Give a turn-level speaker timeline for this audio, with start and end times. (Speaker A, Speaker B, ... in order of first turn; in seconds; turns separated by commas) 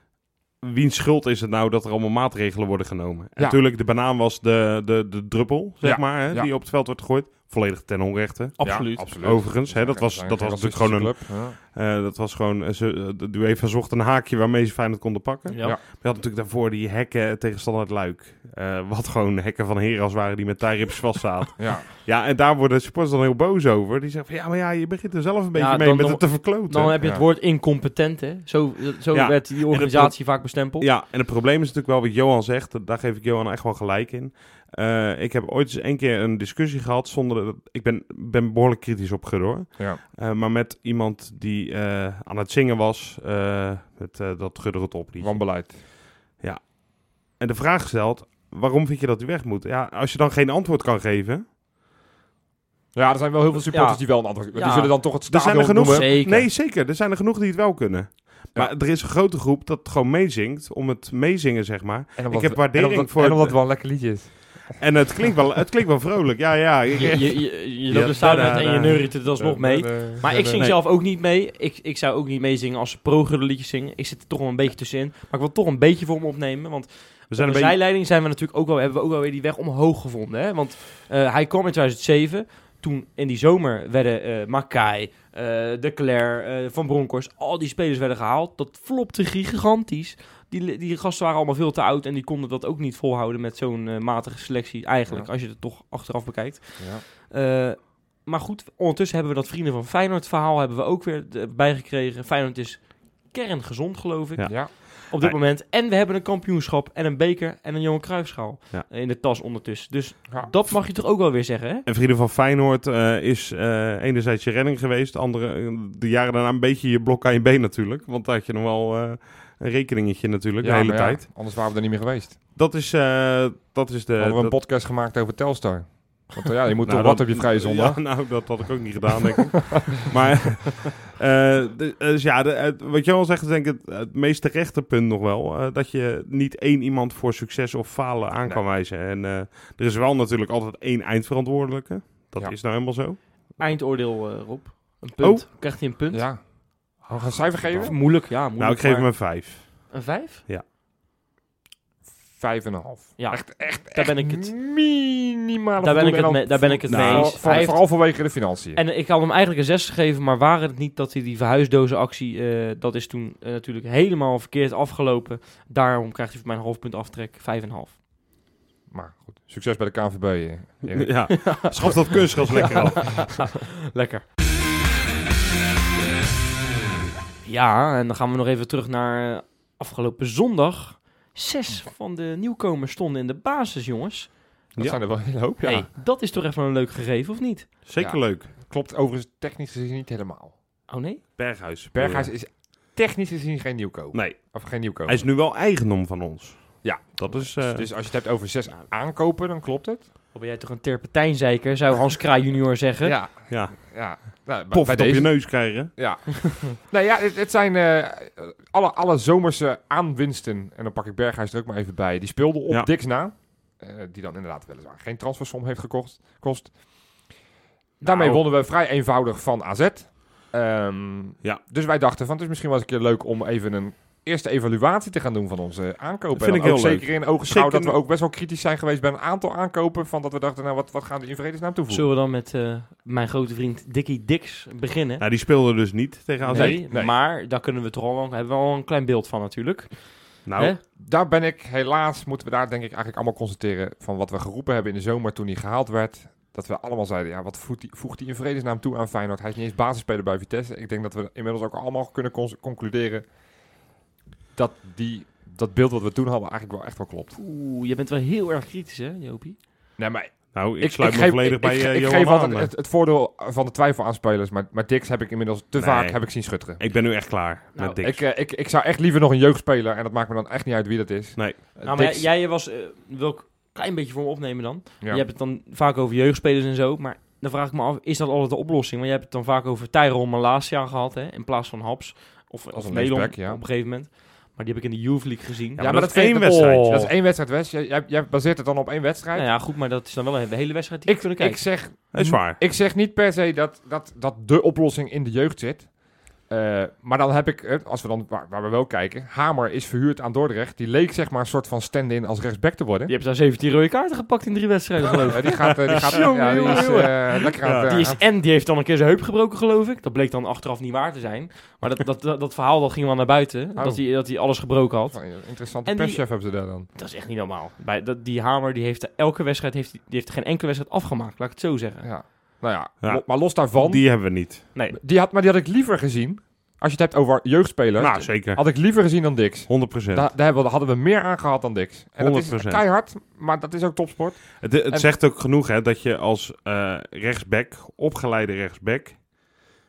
Speaker A: 0.6-26.9, Speaker B: 5.8-6.5, Speaker C: 8.6-9.1, Speaker B: 8.6-11.6, Speaker C: 15.5-15.8, Speaker B: 21.6-21.9, Speaker C: 25.5-30.9, Speaker B: 27.0-27.2, Speaker A: 29.1-45.6, Speaker B: 45.2-45.8, Speaker A: 46.4-51.4, Speaker B: 52.9-56.1, Speaker C: 53.7-55.0, Speaker A: 55.3-63.6, Speaker C: 55.8-56.5, Speaker B: 62.2-65.3, Speaker A: 64.8-69.2, Speaker C: 66.9-111.8, Speaker B: 69.3-70.6, Speaker A: 70.5-70.8, Speaker A: 77.3-77.8, Speaker A: 104.4-105.4, Speaker B: 110.3-110.5, Speaker A: 111.8-121.2, Speaker B: 120.6-122.4, Speaker A: 122.5-124.5, Speaker B: 124.2-128.6, Speaker A: 126.8-143.2, Speaker C: 143.6-146.3, Speaker B: 146.1-148.0, Speaker A: 147.6-150.6, Speaker C: 147.8-149.3, Speaker C: 149.9-150.4, Speaker B: 152.3-158.8, Speaker C: 153.2-154.5, Speaker C: 155.8-168.0, Speaker A: 156.9-157.7, Speaker B: 168.9-171.9, Speaker A: 170.9-173.4, Speaker C: 171.3-174.2, Speaker C: 177.4-184.3, Speaker B: 184.8-185.9, Speaker C: 185.6-187.7, Speaker A: 187.8-188.5, Speaker B: 188.0-190.5, Speaker C: 190.9-191.2, Speaker A: 191.4-192.3, Speaker B: 191.9-195.2, Speaker A: 194.1-197.9, Speaker B: 196.8-200.1, Speaker C: 200.3-203.2, Speaker B: 203.0-216.8, Speaker A: 203.5-205.9, Speaker C: 218.0-218.4, Speaker B: 218.0-232.1, Speaker A: 226.3-228.0, Speaker C: 231.9-235.2, Speaker A: 235.2-236.8, Speaker C: 236.4-240.8, Speaker B: 236.5-237.1, Speaker A: 240.4-240.7, Speaker B: 240.9-253.3, Speaker B: 254.5-257.3, Speaker C: 257.3-259.6, Speaker B: 260.0-266.8, Speaker A: 260.5-262.7, Speaker A: 265.8-268.2, Speaker C: 267.7-268.0, Speaker B: 268.0-272.2, Speaker A: 271.4-271.6, Speaker C: 271.8-285.9, Speaker B: 282.7-283.6, Speaker B: 285.8-289.5, Speaker A: 285.8-287.1, Speaker C: 286.4-287.1, Speaker C: 289.3-291.6, Speaker B: 291.1-295.9, Speaker A: 292.1-292.6, Speaker B: 296.4-303.1, Speaker C: 303.1-316.3, Speaker B: 305.3-308.2, Speaker A: 306.0-306.9, Speaker A: 307.6-307.9, Speaker B: 313.8-314.0, Speaker B: 315.1-316.9, Speaker C: 316.9-322.1, Speaker B: 322.0-335.1, Speaker A: 323.0-324.6, Speaker A: 328.0-328.6, Speaker A: 329.7-330.3, Speaker A: 332.2-332.8, Speaker A: 334.6-339.4